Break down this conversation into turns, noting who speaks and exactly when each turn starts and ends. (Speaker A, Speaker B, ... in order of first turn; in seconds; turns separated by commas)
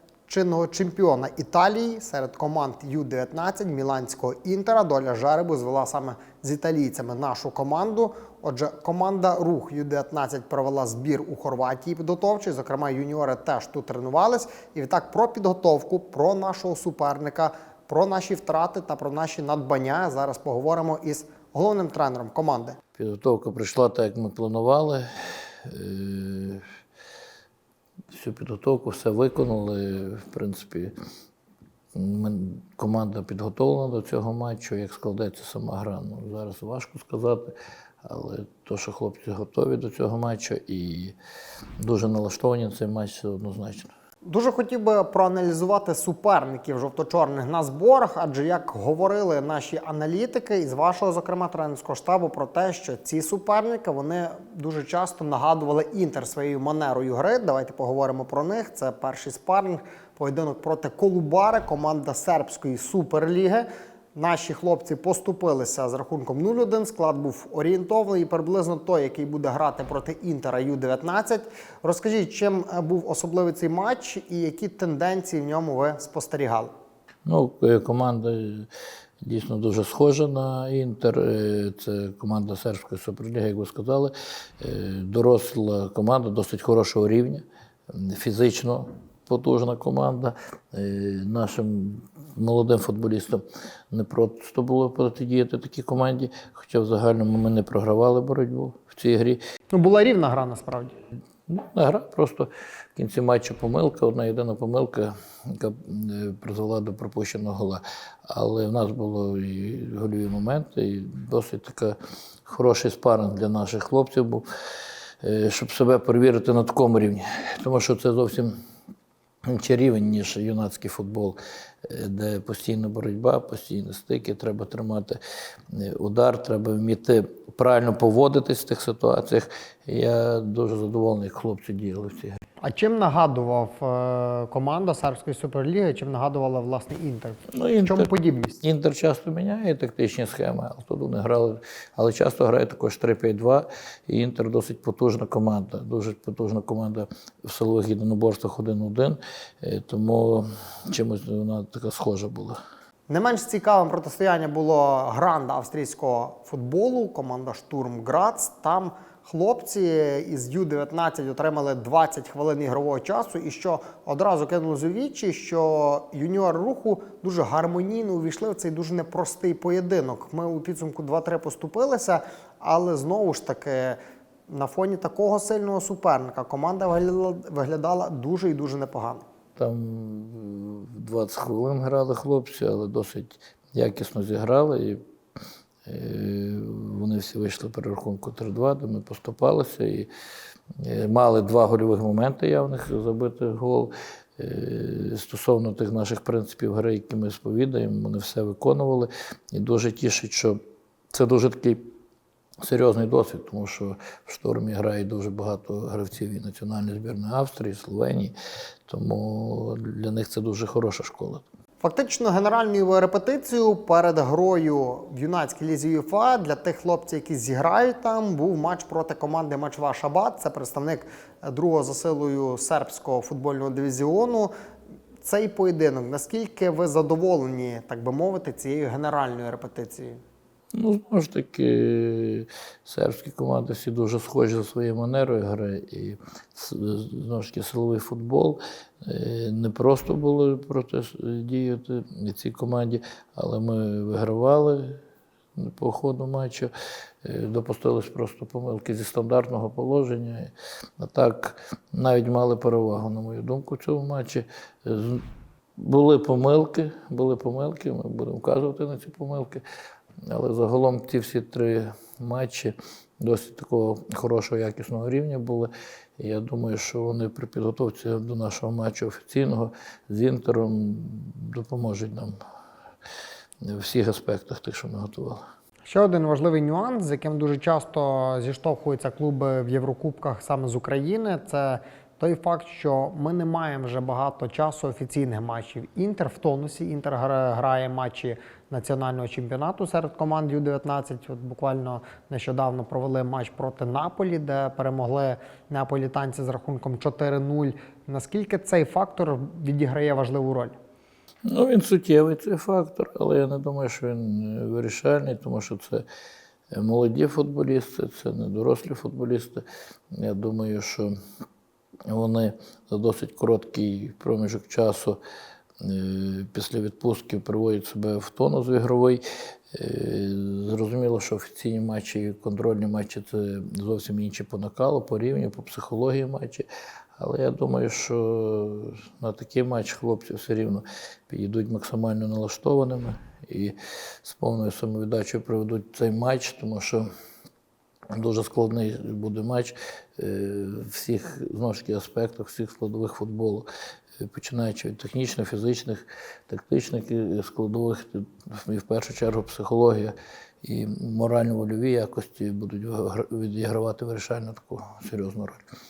Speaker A: 0.3-22.8, Speaker B: 23.0-26.6, Speaker B: 28.1-30.9, Speaker B: 31.9-37.5, Speaker B: 38.0-41.1, Speaker B: 41.8-43.9, Speaker A: 44.2-76.7, Speaker B: 77.3-78.7, Speaker B: 79.2-99.4, Speaker A: 99.7-101.0, Speaker B: 101.5-114.5, Speaker B: 115.2-118.5, Speaker B: 119.5-125.2, Speaker B: 125.7-132.4, Speaker A: 132.6-138.6, Speaker B: 137.5-138.1, Speaker B: 138.6-152.6, Speaker A: 153.1-174.0, Speaker A: 174.5-179.2, Speaker B: 179.6-185.0, Speaker B: 185.8-190.1, Speaker B: 190.8-200.6, Speaker B: 201.1-201.9, Speaker B: 202.6-208.3, Speaker B: 208.9-211.4, Speaker A: 211.8-224.5, Speaker A: 225.2-230.2, Speaker B: 230.7-245.0, Speaker B: 245.6-246.7, Speaker B: 247.2-255.2, Speaker B: 255.8-259.6, Speaker B: 260.2-272.4, Speaker B: 273.6-275.4, Speaker A: 275.9-300.8, Speaker B: 301.5-306.1, Speaker B: 306.7-311.1, Speaker B: 312.1-315.2, Speaker B: 315.8-326.7, Speaker B: 327.2-337.1, Speaker B: 338.1-343.7, Speaker B: 344.2-355.6